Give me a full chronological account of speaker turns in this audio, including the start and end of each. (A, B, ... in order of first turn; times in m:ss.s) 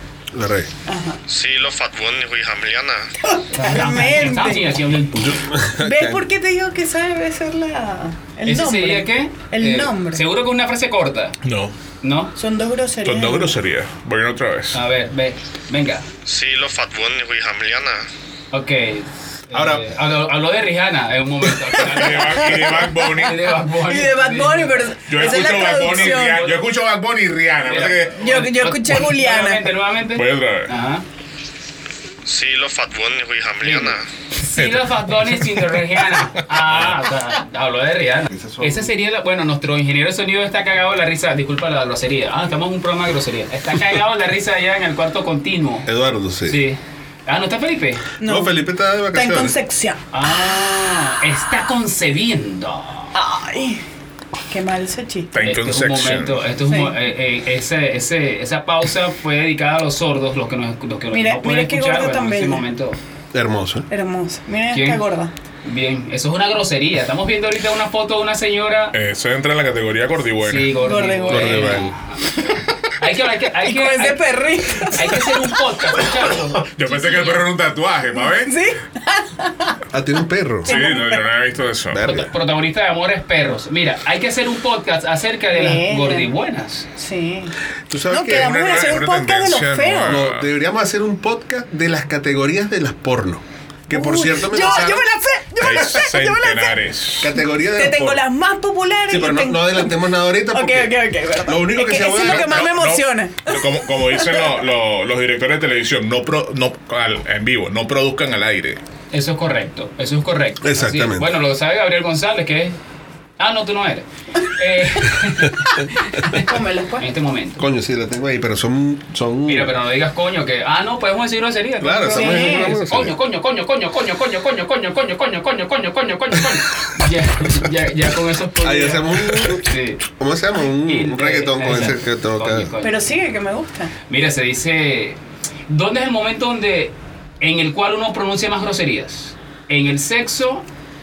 0:00.3-0:00.7 A
0:00.9-0:01.2 B
0:01.2-0:03.1 C
0:03.2-0:04.7 B
0:03.5-0:05.4 D
0:05.2-0:06.2 A
0:05.8-0:10.2 B
0:08.4-0:11.4 D
0:11.4-0:11.7 E
0:12.0-0:12.3 D
0:12.4-0:13.5 B
0:13.0-0:14.8 E
0:14.7-0:16.0 D
0:16.2-0:18.0 C
0:18.5-0:26.6 D
0:19.5-0:19.9 A
0:21.8-0:23.5 E
0:23.8-0:26.5 B
0:25.1-0:28.2 E
0:27.6-0:31.0 D
0:28.1-0:29.7 B
0:30.1-0:30.7 E
0:32.2-0:34.0 C
0:33.6-0:45.9 D
0:34.6-0:35.5 E
0:36.1-0:37.0 E
0:38.3-0:38.9 A
0:45.8-0:46.6 A
0:46.4-0:48.0 D
0:48.2-0:48.6 B
0:48.2-0:49.6 A
0:49.1-0:50.8 B
0:50.1-0:53.1 D
0:53.1-0:53.8 B
0:54.5-0:55.3 B
0:55.3-0:56.4 E
0:55.4-1:03.0 D
0:56.6-0:56.9 B
1:01.1-1:02.6 B
1:03.3-1:03.9 A
1:03.9-1:05.3 B
1:04.7-1:05.0 D
1:05.6-1:08.9 D
1:08.9-1:10.7 E
1:10.4-1:17.4 D
1:10.8-1:11.8 B
1:11.3-1:11.9 A
1:13.6-1:15.6 B
1:16.7-1:18.5 E
1:18.2-1:19.8 B
1:19.9-1:20.8 A
1:20.6-1:21.2 B
1:20.6-1:22.0 E
1:21.9-1:22.3 A
1:22.0-1:26.8 D
1:25.5-1:26.3 B
1:27.0-1:27.5 B
1:27.9-1:28.9 A
1:28.1-1:30.2 B
1:28.3-1:30.5 E
1:30.0-1:35.0 A
1:33.9-1:36.7 B
1:35.6-1:37.3 E
1:37.2-1:38.2 A
1:37.6-1:44.5 B
1:39.1-1:42.6 A
1:42.0-1:48.8 E
1:49.1-1:52.8 D
1:50.6-1:51.3 A
1:53.4-1:56.4 D
1:56.3-1:57.1 B
1:57.0-1:57.6 D
1:57.6-1:59.7 A
1:59.5-2:10.0 D
2:01.8-2:03.1 A
2:02.0-2:02.8 B
2:08.6-2:12.7 A
2:10.8-2:13.0 D
2:12.8-2:13.9 B
2:14.1-2:20.6 D